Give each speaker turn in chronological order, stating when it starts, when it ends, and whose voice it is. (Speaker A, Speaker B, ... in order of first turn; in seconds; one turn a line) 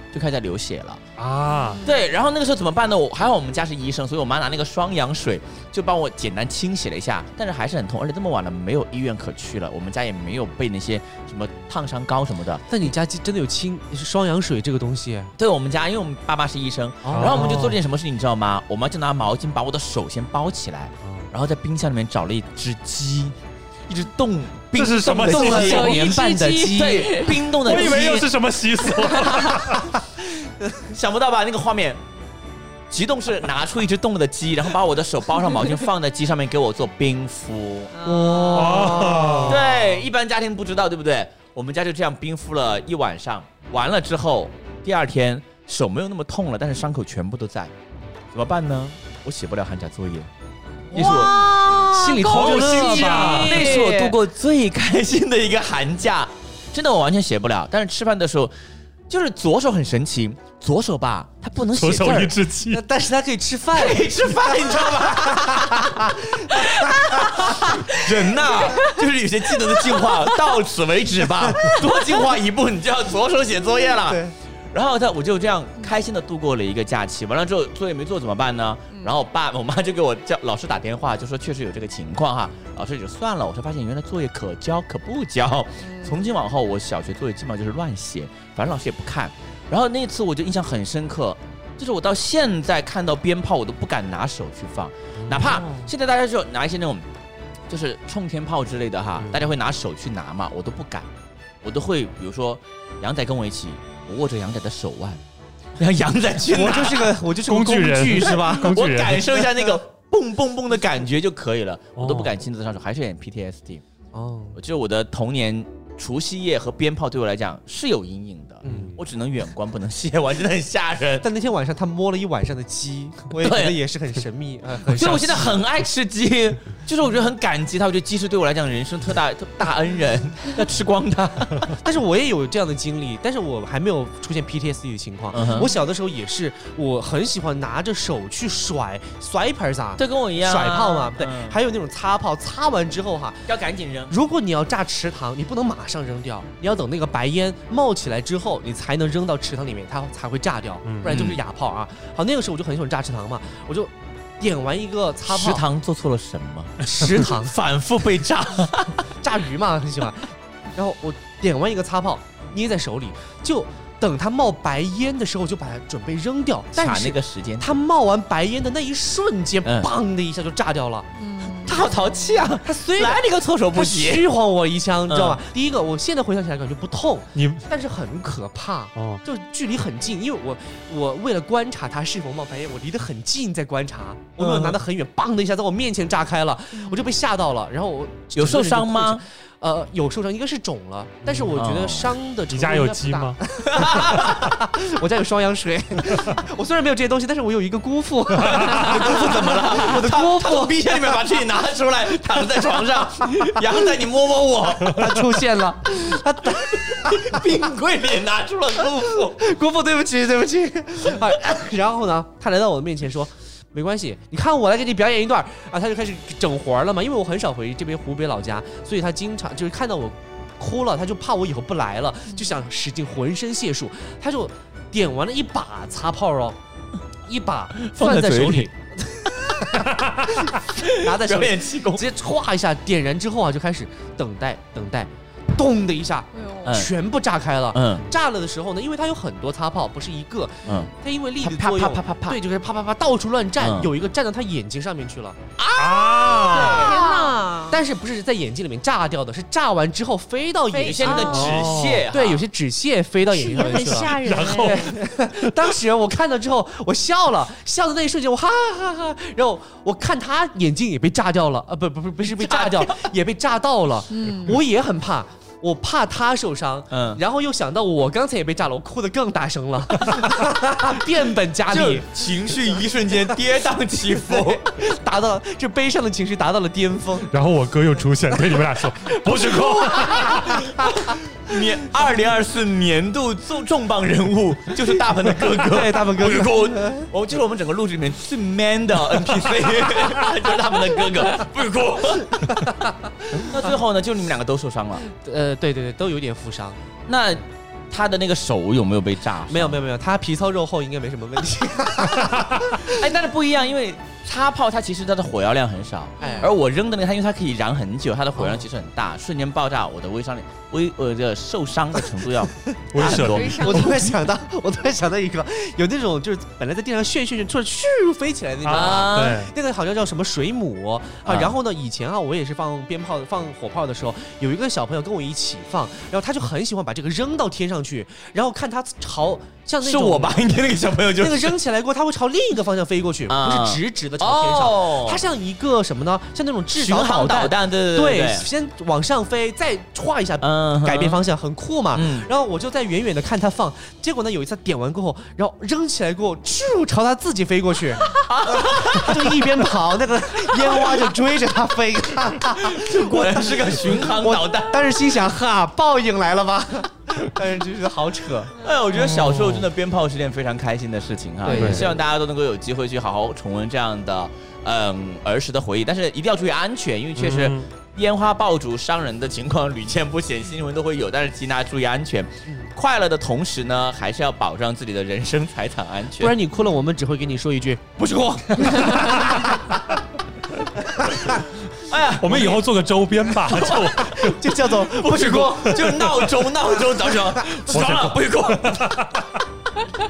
Speaker A: 0.1-1.0
Speaker B: 1.2-1.8
Speaker C: 1.5-2.1
Speaker A: 1.8-12.7
Speaker D: 12.7-15.3
Speaker A: 15.4-23.4
Speaker D: 17.0-17.7
Speaker B: 17.1-17.8
Speaker A: 23.9-26.0
Speaker B: 24.7-26.1
Speaker D: 25.2-27.3
Speaker C: 25.6-27.4
Speaker A: 26.7-28.3
Speaker B: 27.5-29.9
Speaker A: 30.6-32.0
Speaker A: 32.9-47.7
Speaker C: 37.9-38.7
Speaker D: 38.0-39.6
Speaker B: 38.5-39.6
Speaker A: 48.3-50.3
Speaker D: 50.9-54.0
Speaker A: 50.9-51.8
Speaker C: 51.0-54.1
Speaker B: 52.1-53.6
Speaker A: 52.8-58.5
Speaker A: 59.1-62.3
Speaker B: 61.7-62.8
Speaker D: 62.7-67.5
Speaker A: 63.7-97.1
Speaker C: 67.5-68.0
Speaker C: 68.5-68.8
Speaker C: 69.7-70.3
Speaker D: 74.1-74.3
Speaker C: 78.9-79.1
Speaker C: 85.8-86.3
Speaker B: 95.2-95.6
Speaker A: 97.7-101.1
Speaker B: 99.2-99.5
Speaker A: 101.6-105.2
Speaker A: 105.8-107.1
Speaker D: 106.5-108.8
Speaker B: 107.4-109.3
Speaker A: 108.5-113.8
Speaker B: 112.0-112.3
Speaker D: 114.1-114.6
Speaker A: 114.5-121.2
Speaker D: 118.6-118.9
Speaker B: 118.6-119.0
Speaker D: 121.2-125.5
Speaker A: 123.4-123.8
Speaker A: 124.9-131.8
Speaker B: 125.0-125.5
Speaker D: 131.8-143.5
Speaker A: 135.3-135.7
Speaker A: 140.0-141.6
Speaker A: 143.5-144.2
Speaker D: 144.1-155.7
Speaker B: 150.8-151.2
Speaker A: 151.0-151.4
Speaker A: 155.2-159.0
Speaker D: 156.8-157.6
Speaker D: 159.2-171.1
Speaker A: 166.7-167.8
Speaker A: 169.6-169.9
Speaker C: 171.2-172.4
Speaker A: 171.6-174.2
Speaker D: 172.6-201.2
Speaker A: 175.1-175.4
Speaker B: 177.3-177.6
Speaker B: 178.9-179.2
Speaker A: 184.4-184.8
Speaker C: 186.7-187.1
Speaker A: 188.3-189.2
Speaker B: 191.2-191.6
Speaker A: 191.6-192.1
Speaker B: 192.5-193.4
Speaker A: 193.6-194.5
Speaker A: 198.4-205.2
Speaker B: 198.5-199.1
Speaker D: 204.8-207.6
Speaker A: 206.5-209.4
Speaker D: 209.1-226.6
Speaker C: 222.3-222.6
Speaker D: 227.2-245.4
Speaker A: 227.8-228.7
Speaker B: 229.9-230.2
Speaker A: 230.6-232.0
Speaker C: 236.3-236.8
Speaker A: 236.6-236.9
Speaker A: 237.7-238.1
Speaker A: 241.4-242.4
Speaker A: 243.6-243.9
Speaker A: 245.6-247.0
Speaker B: 245.8-246.9
Speaker C: 246.5-247.8
Speaker D: 246.7-272.2
Speaker C: 250.7-251.6
Speaker A: 250.8-252.4
Speaker B: 251.3-252.0
Speaker C: 253.3-254.9
Speaker B: 254.0-255.6
Speaker A: 262.3-263.1
Speaker C: 264.1-264.6
Speaker A: 266.9-267.2
Speaker A: 271.7-274.6
Speaker D: 274.3-277.3
Speaker B: 277.3-280.7
Speaker D: 279.1-280.5
Speaker A: 280.1-295.0
Speaker D: 285.6-287.1
Speaker D: 295.0-296.8
Speaker A: 297.1-299.8
Speaker D: 299.5-302.9
Speaker A: 302.8-313.6
Speaker C: 306.2-306.5
Speaker D: 306.2-306.5
Speaker D: 308.4-308.7
Speaker B: 312.9-314.1
Speaker C: 313.0-314.0
Speaker D: 313.6-330.4
Speaker B: 318.6-319.5
Speaker A: 318.7-319.4
Speaker A: 321.2-321.5
Speaker A: 329.8-331.5
Speaker D: 331.2-358.5
Speaker A: 333.3-335.2
Speaker A: 336.7-338.5
Speaker A: 340.4-341.2
Speaker A: 341.9-342.3
Speaker A: 348.1-349.4
Speaker A: 350.6-351.0
Speaker A: 352.6-354.9
Speaker A: 358.6-376.4
Speaker B: 359.0-359.6
Speaker D: 361.4-362.0
Speaker B: 361.5-361.9
Speaker B: 367.1-367.7
Speaker D: 376.2-377.9
Speaker A: 378.0-379.6
Speaker D: 378.6-379.4
Speaker A: 381.9-382.6
Speaker B: 382.2-384.4
Speaker A: 383.4-389.1
Speaker D: 384.1-386.2
Speaker B: 385.4-386.1
Speaker B: 387.7-389.3